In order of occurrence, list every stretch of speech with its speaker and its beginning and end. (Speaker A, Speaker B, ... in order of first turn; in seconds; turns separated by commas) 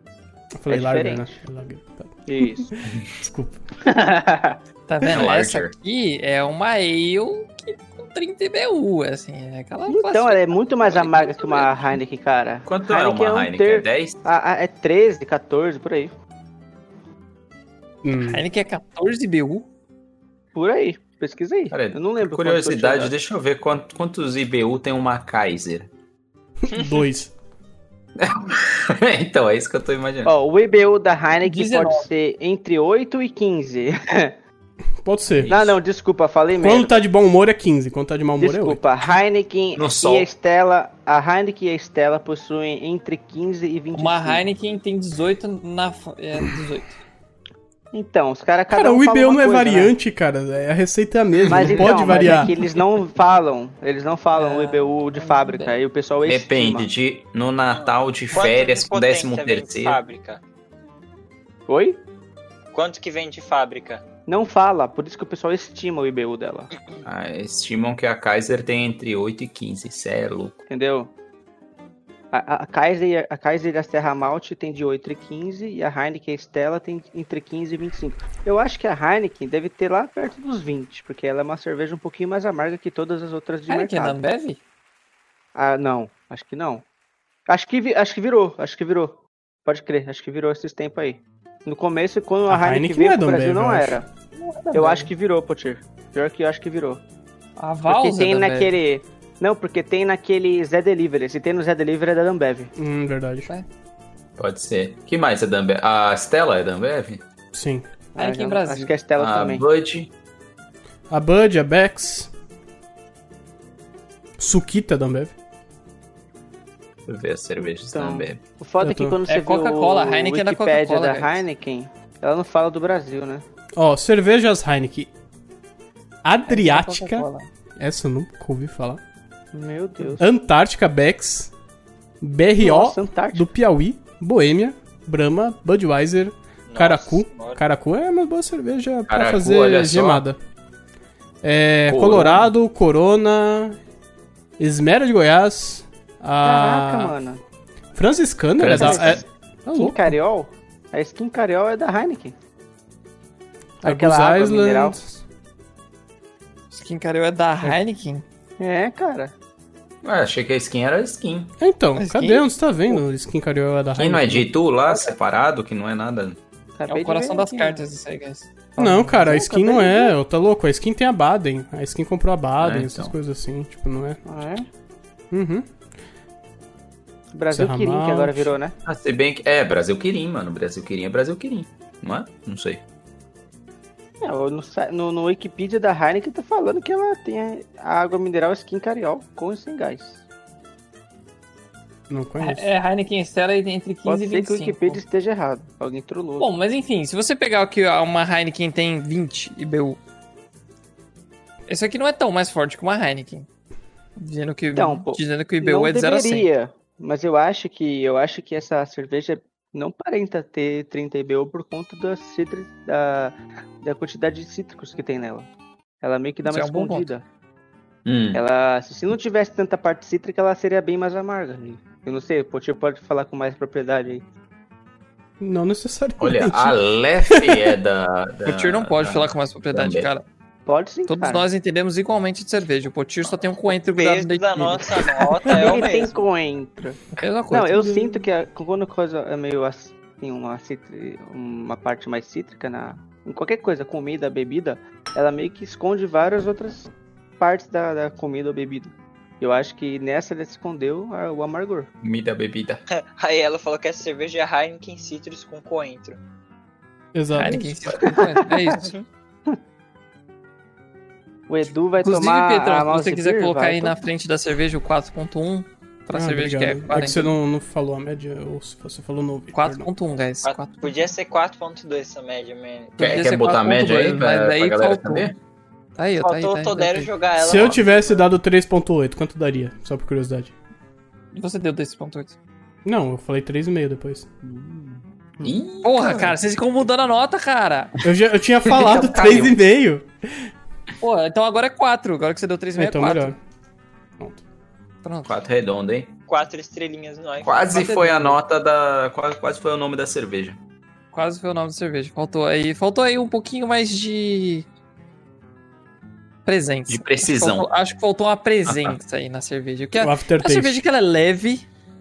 Speaker A: 0.6-3.6, Speaker B: 0.7-1.4, Speaker B: 2.3-2.7, Speaker B: 3.8-4.6, Speaker C: 4.9-11.9, Speaker D: 5.0-5.7, Speaker B: 9.9-16.1, Speaker D: 12.7-14.2, Speaker A: 18.0-18.4, Speaker C: 18.2-19.7, Speaker B: 20.6-23.1, Speaker D: 21.7-25.9, Speaker A: 26.6-27.3, Speaker E: 26.7-27.1, Speaker D: 28.2-30.3, Speaker B: 30.2-34.4, Speaker C: 31.4-32.1, Speaker A: 35.0-35.5, Speaker D: 35.3-35.8, Speaker B: 35.5-37.1, Speaker A: 36.6-38.8, Speaker B: 38.4-44.5, Speaker D: 39.8-40.3, Speaker C: 44.0-47.0, Speaker B: 47.9-50.0, Speaker A: 48.7-52.6, Speaker D: 51.4-51.9, Speaker B: 51.5-56.9, Speaker C: 54.3-55.8, Speaker D: 56.3-60.0, Speaker E: 57.7-60.4, Speaker B: 61.7-62.0, Speaker E: 62.7-64.0, Speaker B: 64.3-66.7, Speaker D: 67.0-70.6, Speaker B: 70.7-71.1, Speaker B: 72.3-84.2, Speaker C: 83.7-84.6, Speaker B: 85.5-86.8, Speaker B: 87.5-94.1, Speaker A: 92.5-94.0, Speaker C: 94.4-95.1, Speaker B: 94.7-97.0, Speaker C: 97.6-98.7, Speaker B: 97.9-102.7, Speaker A: 102.8-103.5, Speaker D: 104.4-107.2, Speaker A: 107.5-107.9, Speaker B: 108.2-109.7, Speaker C: 108.2-108.9, Speaker D: 109.2-110.1, Speaker A: 111.1-112.3, Speaker A: 114.4-115.3, Speaker D: 117.1-118.4, Speaker B: 117.9-123.4, Speaker A: 118.8-119.2, Speaker C: 119.3-121.4, Speaker A: 123.8-125.1, Speaker A: 126.2-127.3, Speaker C: 126.5-127.5, Speaker A: 127.8-129.0, Speaker B: 129.5-130.3, Speaker A: 130.2-131.5, Speaker A: 132.2-140.4, Speaker B: 132.6-133.5, Speaker E: 136.7-137.6, Speaker D: 139.1-140.2, Speaker A: 141.4-143.8, Speaker D: 141.9-142.5, Speaker A: 144.6-147.1, Speaker B: 146.4-147.4, Speaker A: 147.9-150.2, Speaker D: 148.6-149.2, Speaker B: 148.7-152.3, Speaker B: 153.8-155.0, Speaker A: 153.8-155.2, Speaker C: 156.7-158.2, Speaker B: 158.6-159.3, Speaker D: 160.0-161.5, Speaker A: 161.6-164.5, Speaker C: 162.0-162.5, Speaker D: 163.9-166.4, Speaker B: 166.8-167.8, Speaker C: 166.9-169.3, Speaker B: 168.8-170.2, Speaker A: 168.8-174.2, Speaker D: 172.6-173.1, Speaker B: 174.2-174.7, Speaker A: 175.3-175.7, Speaker B: 177.3-178.8, Speaker A: 177.5-178.5, Speaker D: 178.8-182.8, Speaker B: 184.2-190.2, Speaker A: 192.1-192.7, Speaker C: 192.4-195.0, Speaker B: 194.1-196.5, Speaker C: 196.4-200.0, Speaker C: 201.7-203.5, Speaker C: 204.2-206.5, Speaker B: 204.7-215.5, Speaker B: 216.0-217.2, Speaker C: 216.4-217.1, Speaker D: 218.1-218.4, Speaker B: 218.3-224.2, Speaker A: 225.4-226.8, Speaker D: 226.2-230.1, Speaker A: 227.3-227.7, Speaker C: 228.4-230.2, Speaker B: 230.7-231.5, Speaker C: 231.1-235.9, Speaker E: 233.9-236.2, Speaker B: 235.5-251.9, Speaker C: 237.2-238.1, Speaker D: 252.0-252.8, Speaker E: 252.9-256.2, Speaker A: 257.1-258.0, Speaker C: 257.3-258.9, Speaker E: 258.7-259.0, Speaker B: 261.5-264.0, Speaker C: 262.0-267.3, Speaker A: 266.1-269.9, Speaker C: 269.5-270.9, Speaker E: 270.4-273.0, Speaker C: 273.0-275.3, Speaker D: 273.0-275.4, Speaker C: 276.0-277.1, Speaker E: 276.2-278.2, Speaker A: 277.4-280.5, Speaker C: 281.3-282.4, Speaker A: 282.9-284.3, Speaker D: 285.4-286.4, Speaker C: 285.8-287.9, Speaker A: 288.0-290.5, Speaker D: 288.6-289.6, Speaker C: 288.8-289.5, Speaker C: 291.0-293.3, Speaker A: 292.8-293.4, Speaker C: 295.0-295.4, Speaker D: 295.3-296.1, Speaker E: 296.3-297.8, Speaker D: 297.4-300.6, Speaker C: 297.7-298.4, Speaker C: 301.1-304.7, Speaker C: 306.5-311.7, Speaker D: 306.9-307.7, Speaker D: 308.7-309.0, Speaker A: 310.0-310.8